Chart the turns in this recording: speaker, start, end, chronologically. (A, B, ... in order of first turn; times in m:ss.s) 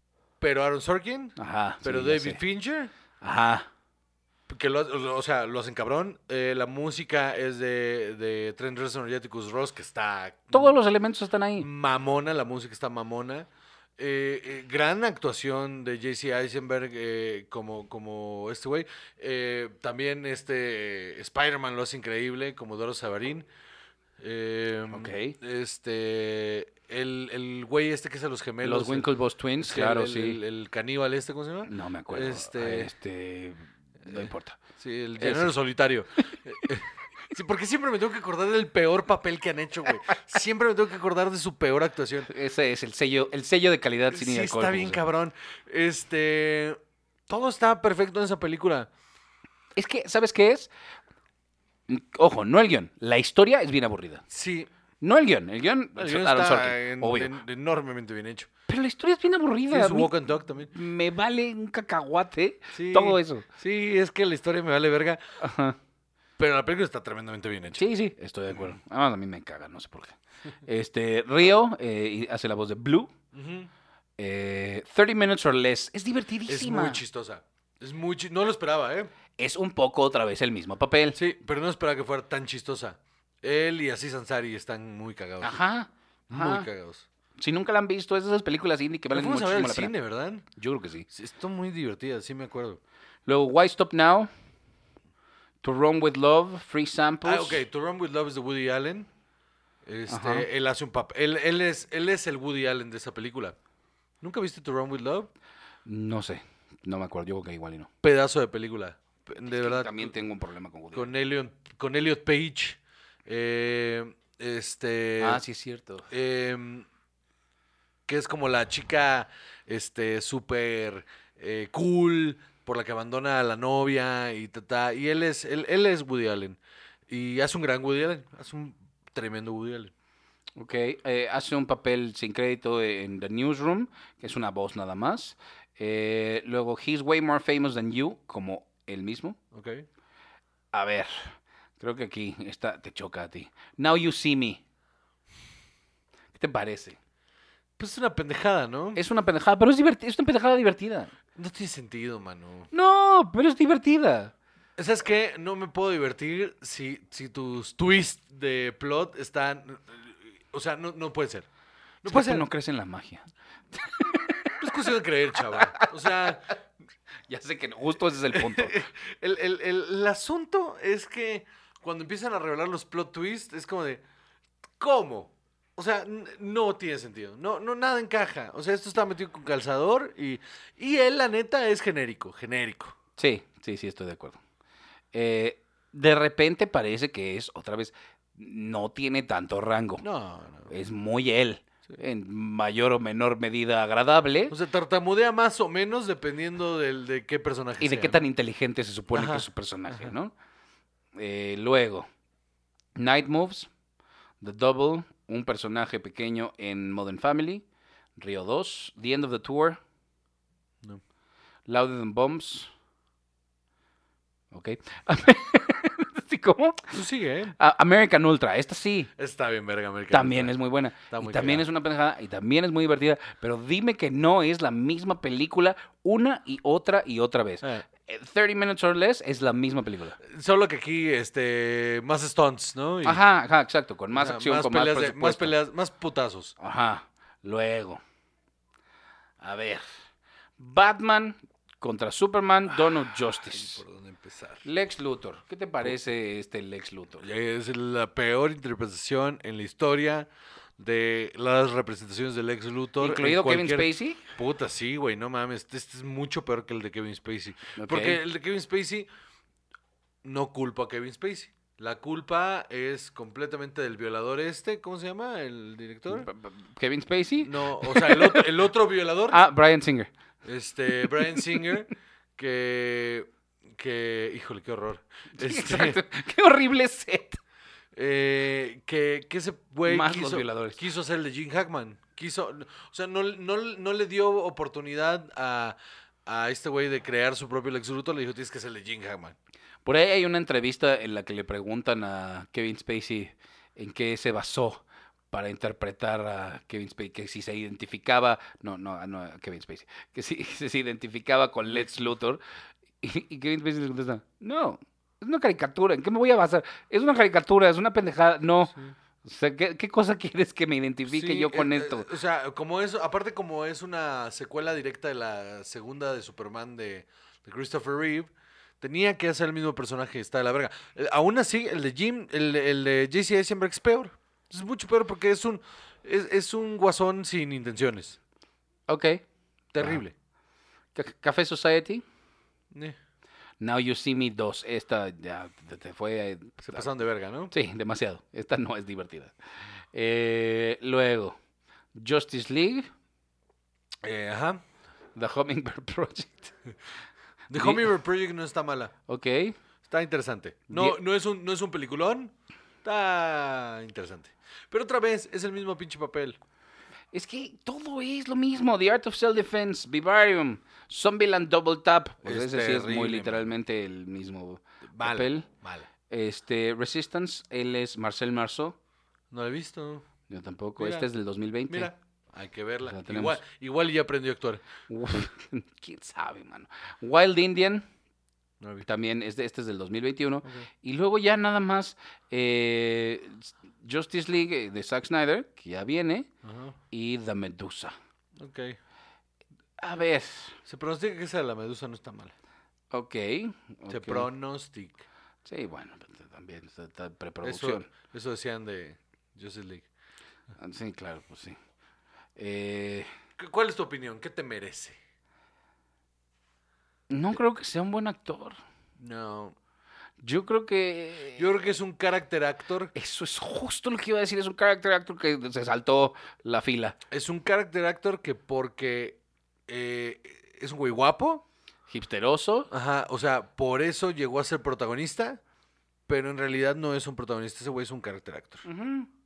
0:00.4-0:02.9 A
0:01.4-0:02.4 B
0:03.2-0:03.7 B
0:04.5-0:10.8 A
0:10.5-0:11.7 B
0:11.6-0:23.5 A
0:24.2-0:32.9 A
0:24.9-0:25.4 B
0:28.6-0:30.4 B
0:31.6-0:34.6 B
0:34.0-0:42.3 A
0:35.2-0:35.5 B
0:42.3-0:45.0 B
0:44.1-0:48.9 A
0:49.8-0:50.7 B
0:51.9-0:54.2 B
0:54.3-0:54.7 A
0:55.0-0:57.3 B
0:56.0-0:58.5 A
0:58.7-1:00.1 B
0:59.7-1:00.7 A
1:00.7-1:03.4 B
1:02.7-1:05.2 A
1:05.4-1:05.8 B
1:06.4-1:07.9 A
1:07.7-1:13.1 B
1:08.5-1:08.7 A
1:13.3-1:13.7 A
1:14.2-1:17.0 B
1:16.4-1:19.1 A
1:19.4-1:21.2 B
1:21.1-1:25.6 A
1:25.4-1:26.7 B
1:26.3-1:27.0 A
1:27.4-1:29.9 B
1:29.1-1:30.5 A
1:30.6-1:31.1 B
1:31.1-1:32.8 A
1:33.2-1:34.3 B
1:35.6-1:37.6 B
1:37.2-1:39.1 A
1:39.8-1:43.6 A
1:40.1-1:40.5 B
1:44.2-1:45.3 A
1:45.8-1:47.9 B
1:48.0-1:50.2 A
1:49.4-1:51.1 B
1:50.9-1:55.4 A
1:55.2-1:56.1 B
1:56.1-1:56.9 A
1:58.1-2:09.9 A
2:10.6-2:19.4 B
2:19.5-2:19.8 A
2:20.7-2:24.6 B
2:26.3-2:27.0 B
2:27.8-2:29.0 A
2:29.0-2:31.1 B
2:31.4-2:32.7 A
2:32.7-2:34.3 B
2:34.8-2:41.5 A
2:42.0-2:42.5 A
2:42.0-2:44.9 B
2:44.6-2:46.4 A
2:45.5-2:46.3 B
2:47.3-2:48.8 B
2:48.3-2:54.0 A
2:54.8-3:02.9 A
3:03.2-3:04.4 B
3:05.1-3:10.0 B
3:10.0-3:10.7 A
3:10.7-3:14.6 B
3:14.5-3:18.2 A
3:17.8-3:20.3 B
3:19.1-3:20.1 A
3:21.2-3:22.1 B
3:23.0-3:23.7 B
3:24.4-3:27.6 B
3:28.2-3:29.8 B
3:31.7-3:32.7 B
3:34.5-3:37.0 B
3:36.9-3:37.6 A
3:37.6-3:39.1 B
3:39.2-3:41.7 A
3:40.1-3:50.2 B
3:47.6-3:47.9 A
3:50.2-3:53.2 A
3:53.0-3:55.6 B
3:54.1-3:56.5 A
3:56.6-3:58.0 B
3:59.4-3:59.8 B
4:00.6-4:03.8 B
4:02.7-4:04.6 A
4:04.6-4:07.2 B
4:07.2-4:19.1 A
4:13.0-4:14.2 B
4:17.8-4:18.2 B
4:20.2-4:26.3 A
4:26.1-4:28.5 B
4:27.4-4:29.4 A
4:29.3-4:30.1 B
4:30.4-4:36.0 A
4:31.2-4:31.7 B
4:35.3-4:37.4 B
4:37.9-4:49.4 A
4:39.8-4:40.8 B
4:49.8-5:02.4 B
5:01.7-5:01.9 A
5:03.0-5:12.1 B
5:11.0-5:28.2 A
5:28.9-5:29.2 B
5:29.7-5:30.1 A
5:30.9-5:32.0 B
5:33.6-5:36.9 B
5:36.6-5:37.5 A
5:37.5-5:39.3 B
5:39.9-5:41.4 B
5:41.9-5:42.9 B
5:44.0-5:44.6 A
5:45.1-5:46.5 B
5:47.5-5:47.9 B
5:47.5-5:48.9 A
5:49.1-5:49.6 B
5:49.9-5:52.3 A
5:50.7-5:51.0 B
5:52.8-5:56.4 A
5:57.1-6:05.5 B
6:02.2-6:03.5 A
6:04.8-6:05.9 A
6:06.1-6:08.8 B
6:09.3-6:10.0 A
6:10.3-6:11.9 B
6:10.8-6:11.1 A
6:11.7-6:14.7 A
6:12.8-6:13.4 B
6:14.9-6:17.8 B
6:18.6-6:18.8 A
6:18.8-6:26.3 B
6:26.4-6:26.8 A
6:26.9-6:28.0 B
6:28.4-6:28.8 A
6:29.8-6:30.6 B
6:30.6-6:32.3 A
6:32.9-6:34.3 B
6:33.9-6:35.0 A
6:35.4-6:37.9 B
6:37.4-6:39.9 A
6:40.6-6:41.6 B
6:42.4-6:43.1 B
6:43.4-6:45.0 A
6:47.1-6:48.6 B
6:49.0-6:49.5 A
6:50.2-6:51.7 B
6:51.4-6:52.9 A
6:52.9-6:57.0 B
6:57.1-7:01.4 A
7:01.9-7:02.7 B
7:02.7-7:05.4 A
7:06.1-7:08.6 A
7:08.6-7:09.1 B